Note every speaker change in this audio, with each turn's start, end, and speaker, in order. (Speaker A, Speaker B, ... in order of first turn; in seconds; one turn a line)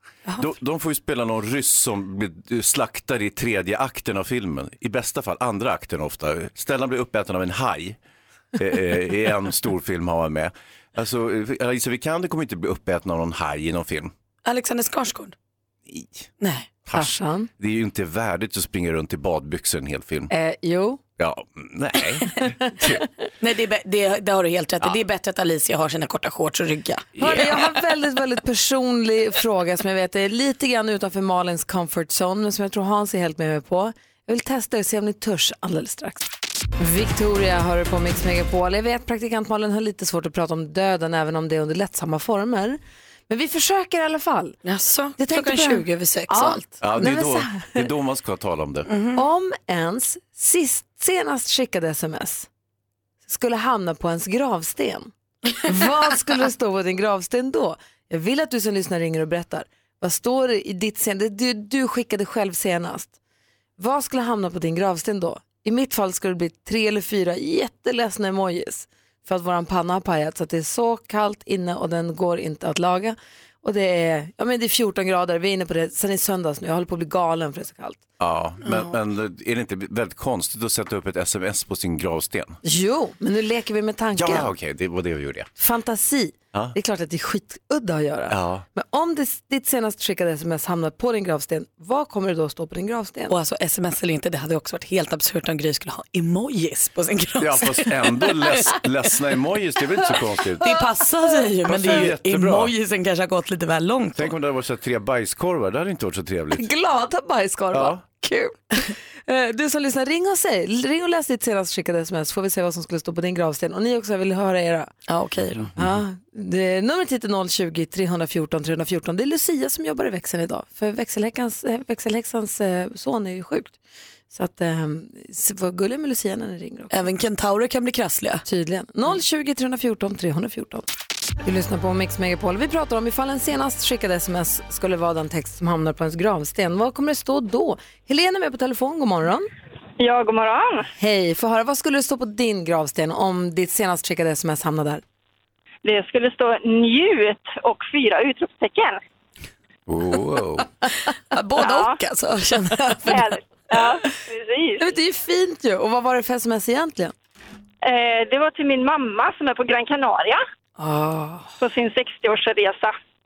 Speaker A: 0.4-8.0
Speaker A: 8.6-14.1
Speaker B: 14.4-15.3
Speaker A: 15.9-16.2
Speaker B: 16.4-16.7
Speaker A: 16.9-20.3
Speaker C: 16.9-17.5
Speaker C: 20.3-21.0
Speaker A: 21.2-23.0
Speaker B: 23.4-27.6
Speaker C: 27.2-36.3
Speaker C: 36.8-44.6
Speaker B: 44.6-46.6
Speaker C: 45.2-47.9
Speaker A: 46.8-48.9
Speaker B: 48.9-49.2
Speaker C: 49.1-52.5
Speaker C: 53.2-55.1
Speaker C: 55.6-63.1
Speaker C: 63.8-78.0
Speaker A: 78.2-82.6
Speaker C: 82.6-84.5
Speaker A: 84.2-85.5
Speaker C: 85.6-93.3
Speaker A: 88.3-88.6
Speaker B: 93.3-98.8
Speaker A: 97.4-100.8
Speaker B: 100.6-104.3
Speaker A: 101.6-102.7
Speaker A: 104.1-106.7
Speaker C: 106.5-108.3
Speaker A: 107.7-108.0
Speaker C: 109.3-114.9
Speaker B: 115.1-115.7
Speaker A: 115.5-115.9
Speaker C: 115.8-123.8
Speaker C: 124.3-127.0
Speaker B: 126.9-128.4
Speaker C: 128.4-130.8
Speaker C: 131.4-139.5
Speaker D: 140.0-140.9
Speaker C: 140.9-145.0
Speaker D: 145.8-149.0
Speaker A: 149.9-150.7
Speaker B: 151.3-153.3
Speaker D: 151.6-152.0
Speaker D: 153.0-154.8
Speaker C: 154.8-157.1
Speaker D: 157.8-160.4
Speaker C: 160.8-161.5
Speaker D: 161.6-162.9